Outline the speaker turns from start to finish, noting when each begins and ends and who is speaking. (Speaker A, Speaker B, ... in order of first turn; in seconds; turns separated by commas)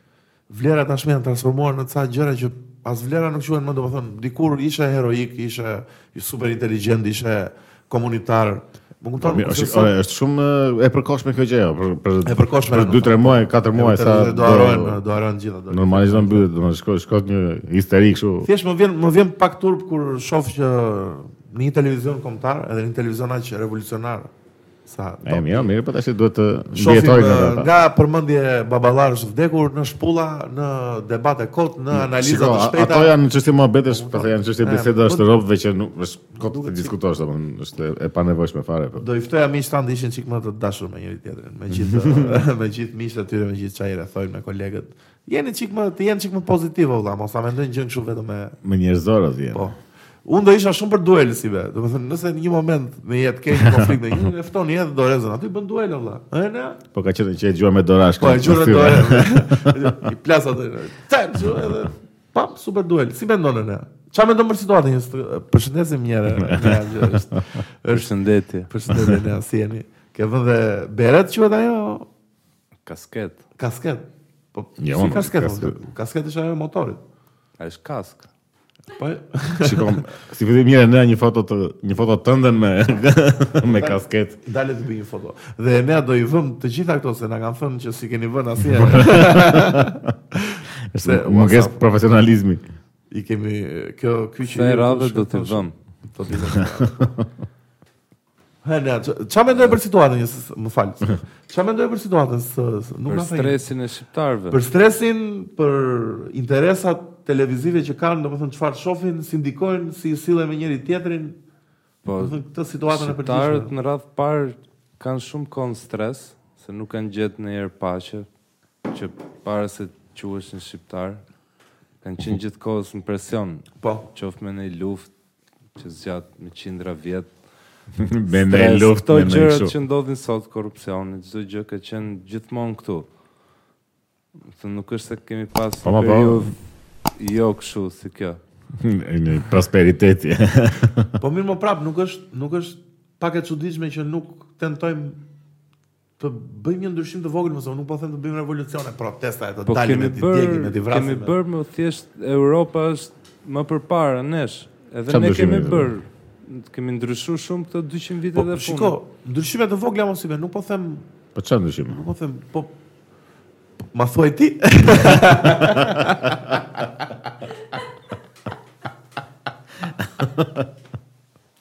Speaker A: 0.5-9.9, Speaker B: 9.2-15.0, Speaker A: 12.2-16.5, Speaker B: 15.7-18.5, Speaker A: 18.4-24.3, Speaker A: 24.9-25.7, Speaker B: 25.2-27.7, Speaker A: 26.7-33.1, Speaker B: 31.9-39.0, Speaker A: 33.9-35.4, Speaker A: 36.4-36.9, Speaker A: 39.0-48.6, Speaker B: 41.7-42.4, Speaker B: 48.6-49.7, Speaker A: 50.3-56.8, Speaker B: 53.5-54.0, Speaker B: 56.9-59.9, Speaker A: 58.2-68.1, Speaker B: 66.3-67.4, Speaker C: 67.9-68.7, Speaker A: 68.7-72.1, Speaker C: 72.9-73.4, Speaker A: 73.6-77.0, Speaker B: 74.8-75.8, Speaker C: 77.6-78.3, Speaker A: 79.0-80.0, Speaker B: 79.6-84.4, Speaker A: 83.6-91.8, Speaker B: 88.8-90.1, Speaker B: 90.9-92.6, Speaker A: 93.1-97.1, Speaker C: 94.5-95.7, Speaker B: 96.5-97.2, Speaker A: 98.6-103.6, Speaker C: 103.1-104.6, Speaker A: 104.5-111.4, Speaker C: 112.0-118.3, Speaker A: 112.2-113.7, Speaker C: 118.9-121.2, Speaker C: 122.0-125.1, Speaker C: 125.8-127.3, Speaker B: 128.0-129.8, Speaker C: 128.3-133.1, Speaker C: 134.5-136.6, Speaker B: 135.8-136.5, Speaker C: 137.2-138.4, Speaker B: 138.8-141.1, Speaker A: 141.2-145.2, Speaker A: 146.2-151.3, Speaker C: 149.7-158.9, Speaker B: 155.1-155.9, Speaker A: 158.3-161.1, Speaker B: 161.3-162.0, Speaker A: 161.9-162.7, Speaker A: 163.9-166.6, Speaker B: 170.2-170.6